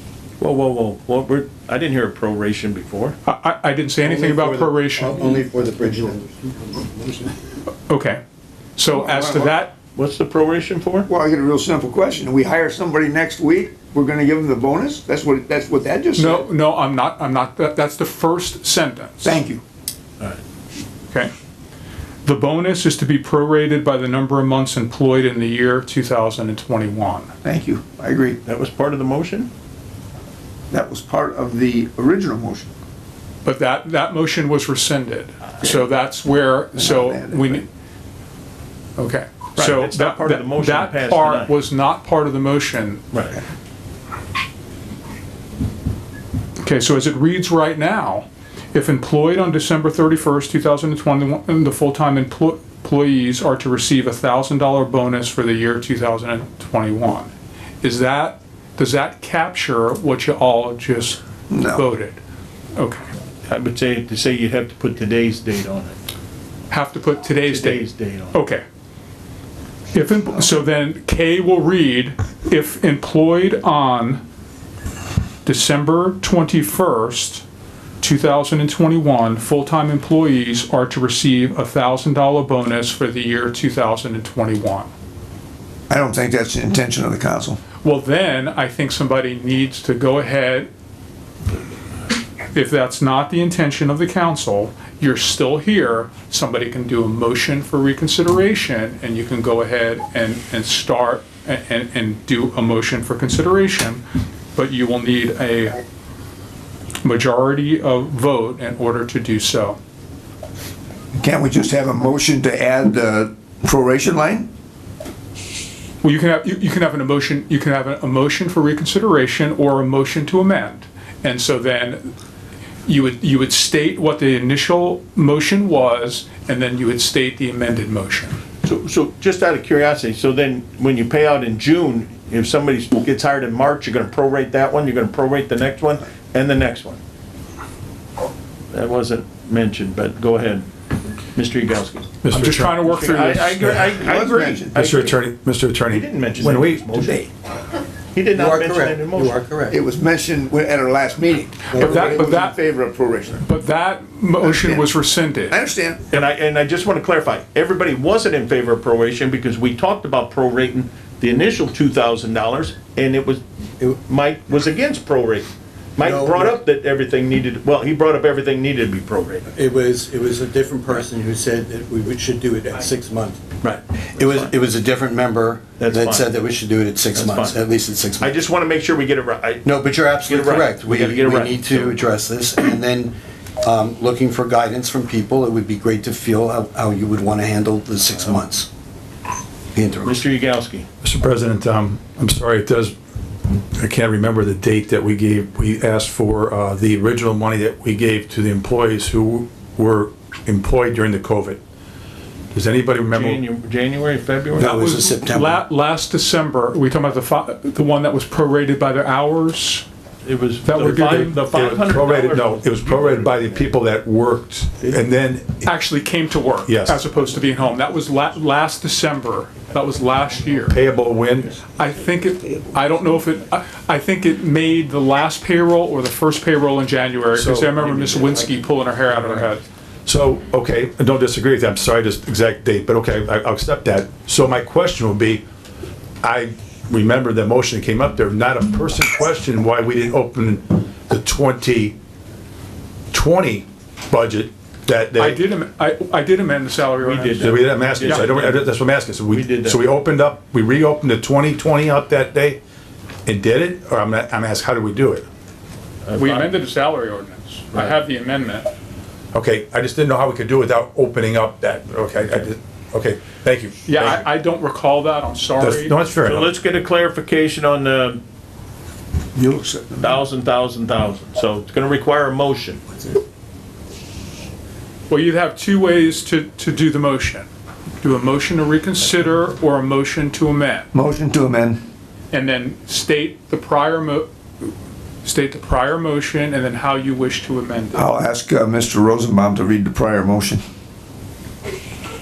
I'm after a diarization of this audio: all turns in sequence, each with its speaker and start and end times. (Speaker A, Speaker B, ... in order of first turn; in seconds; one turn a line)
Speaker A: 0.4-3.1
Speaker B: 3.2-5.3
Speaker C: 4.1-7.3
Speaker B: 7.9-8.2
Speaker B: 8.8-9.7
Speaker D: 8.9-9.5
Speaker A: 9.9-11.1
Speaker D: 11.1-16.4
Speaker B: 16.1-19.4
Speaker D: 19.2-19.6
Speaker B: 22.2-27.3
Speaker D: 27.4-28.4
Speaker A: 28.4-29.5
Speaker D: 30.7-32.7
Speaker B: 33.4-37.6
Speaker D: 36.8-37.6
Speaker B: 39.0-43.0
Speaker A: 39.6-41.5
Speaker A: 43.1-43.4
Speaker B: 46.6-62.2
Speaker D: 61.5-61.8
Speaker B: 62.8-63.0
Speaker A: 63.5-66.0
Speaker B: 66.7-68.6
Speaker A: 67.4-68.3
Speaker B: 69.9-74.2
Speaker B: 75.4-77.4
Speaker B: 78.0-84.9
Speaker D: 85.9-87.6
Speaker B: 87.8-90.7
Speaker B: 92.5-104.0
Speaker B: 104.5-105.8
Speaker B: 107.0-109.8
Speaker D: 111.2-114.5
Speaker B: 116.0-122.1
Speaker B: 122.8-128.4
Speaker A: 128.6-137.0
Speaker A: 138.7-140.7
Speaker A: 141.3-145.2
Speaker E: 142.2-142.8
Speaker B: 142.3-143.7
Speaker D: 144.0-144.8
Speaker E: 144.7-147.2
Speaker A: 145.9-147.3
Speaker A: 148.1-149.4
Speaker C: 148.3-149.8
Speaker D: 149.7-153.4
Speaker B: 151.7-152.6
Speaker B: 153.4-155.6
Speaker D: 154.4-154.9
Speaker D: 155.5-156.0
Speaker A: 156.1-169.5
Speaker C: 166.0-166.5
Speaker C: 169.5-173.4
Speaker A: 173.6-174.5
Speaker C: 174.2-178.3
Speaker A: 175.8-176.4
Speaker A: 177.1-177.6
Speaker A: 178.2-182.0
Speaker C: 179.6-188.7
Speaker C: 189.7-190.2
Speaker A: 190.0-190.9
Speaker E: 191.0-192.9
Speaker E: 193.7-201.6
Speaker E: 202.5-203.4
Speaker A: 203.1-204.7
Speaker C: 204.6-205.6
Speaker B: 204.6-209.8
Speaker A: 210.2-213.7
Speaker B: 210.6-211.4
Speaker E: 210.9-215.7
Speaker B: 215.6-220.8
Speaker E: 216.7-217.0
Speaker E: 220.7-221.6
Speaker B: 221.8-229.6
Speaker E: 227.3-228.3
Speaker E: 230.1-235.4
Speaker E: 236.2-241.9
Speaker E: 243.1-245.4
Speaker B: 245.2-248.3
Speaker A: 247.0-248.7
Speaker E: 247.4-252.6
Speaker A: 249.3-249.8
Speaker E: 253.2-255.2
Speaker A: 256.1-256.5
Speaker B: 256.1-258.7
Speaker E: 259.3-264.2
Speaker B: 263.9-265.9
Speaker E: 265.6-266.5
Speaker A: 266.2-268.2
Speaker D: 269.3-270.2
Speaker A: 270.0-272.9
Speaker B: 275.1-277.5
Speaker B: 278.0-280.9
Speaker D: 280.9-281.8
Speaker B: 282.3-284.7
Speaker B: 285.2-288.1
Speaker D: 287.9-290.6